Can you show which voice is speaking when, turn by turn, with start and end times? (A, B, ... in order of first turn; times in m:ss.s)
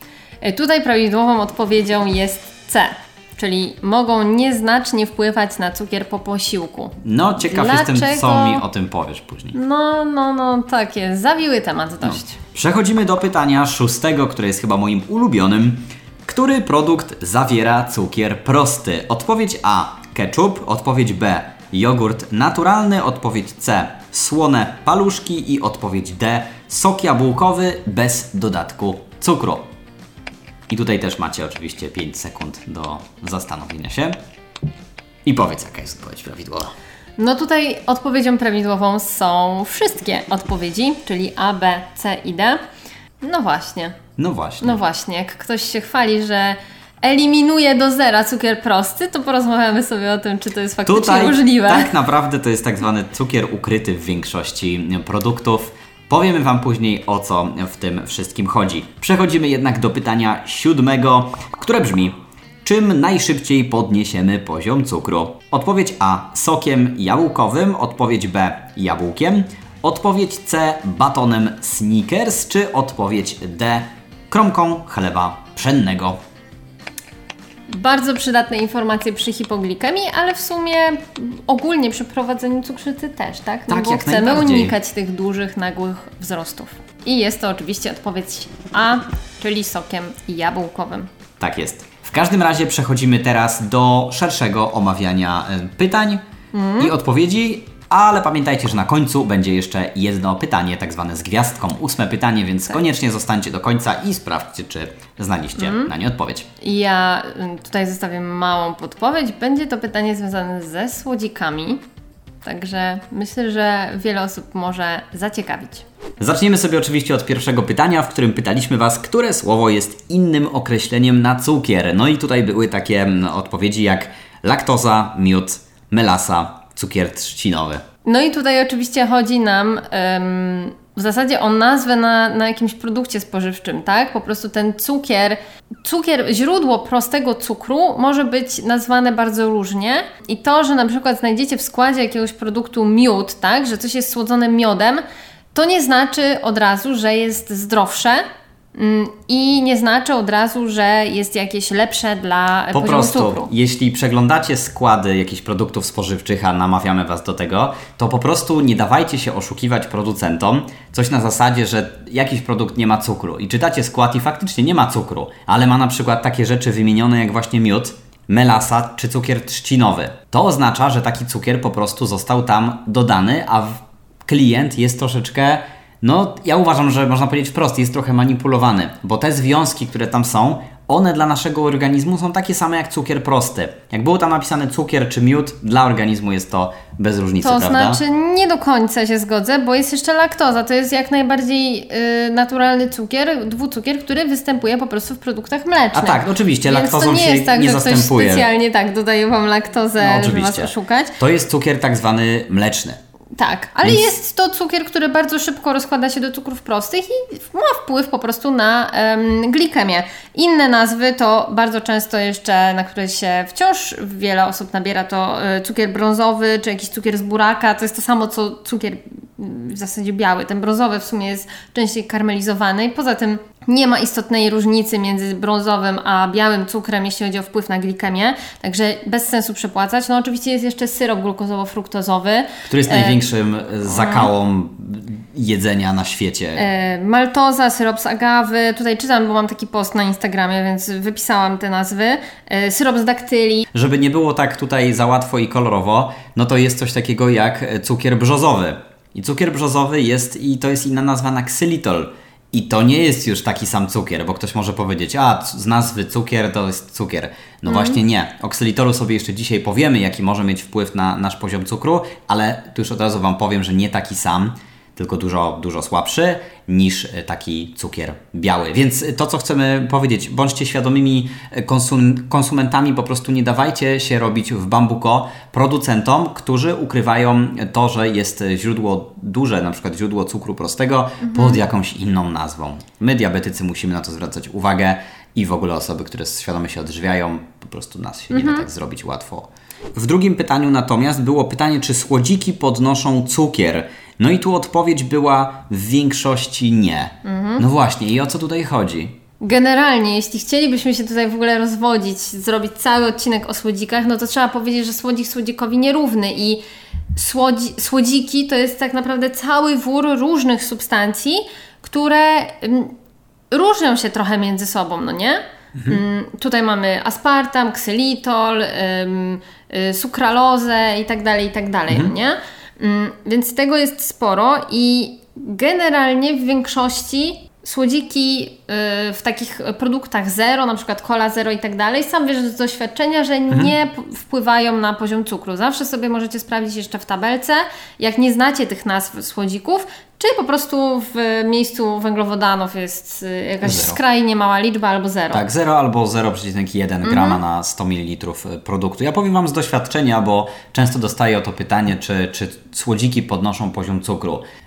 0:00.4-0:08.6 A
0:07.0-0:09.6 B
0:09.5-0:12.4 A
0:12.0-0:29.7 B
0:30.7-0:34.2 B
0:35.2-0:36.8 B
0:37.2-0:42.6 A
0:43.2-0:44.0 A
0:44.2-0:44.8 B
0:44.6-0:51.9 A
0:50.9-1:16.2 B
1:17.7-1:31.1 A
1:23.7-1:24.8 B
1:31.4-1:36.2 B
1:36.5-1:36.9 A
1:36.8-1:46.5 B
1:45.6-1:45.9 A
1:46.6-1:51.8 A
1:52.4-1:55.8 A
1:56.2-2:07.8 B
2:08.0-2:25.0 A
2:25.5-2:28.2 A
2:28.8-2:33.5 A
2:32.7-3:08.0 B
3:07.4-3:21.2 A
3:15.9-3:18.5 B
3:20.0-3:23.0 B
3:23.4-3:53.2 A
3:52.7-3:56.7 B
3:53.8-3:54.3 A
3:56.6-4:03.6 A
4:03.7-4:59.2 B
4:17.7-4:18.0 A
4:41.2-4:41.6 A
4:48.3-4:48.7 A
4:57.2-4:57.6 A
4:59.4-5:06.6 A
5:07.2-5:12.9 A
5:13.5-5:45.4 A
5:15.8-5:16.0 B
5:43.6-5:44.0 B
5:45.3-5:54.4 B
5:47.0-5:47.4 A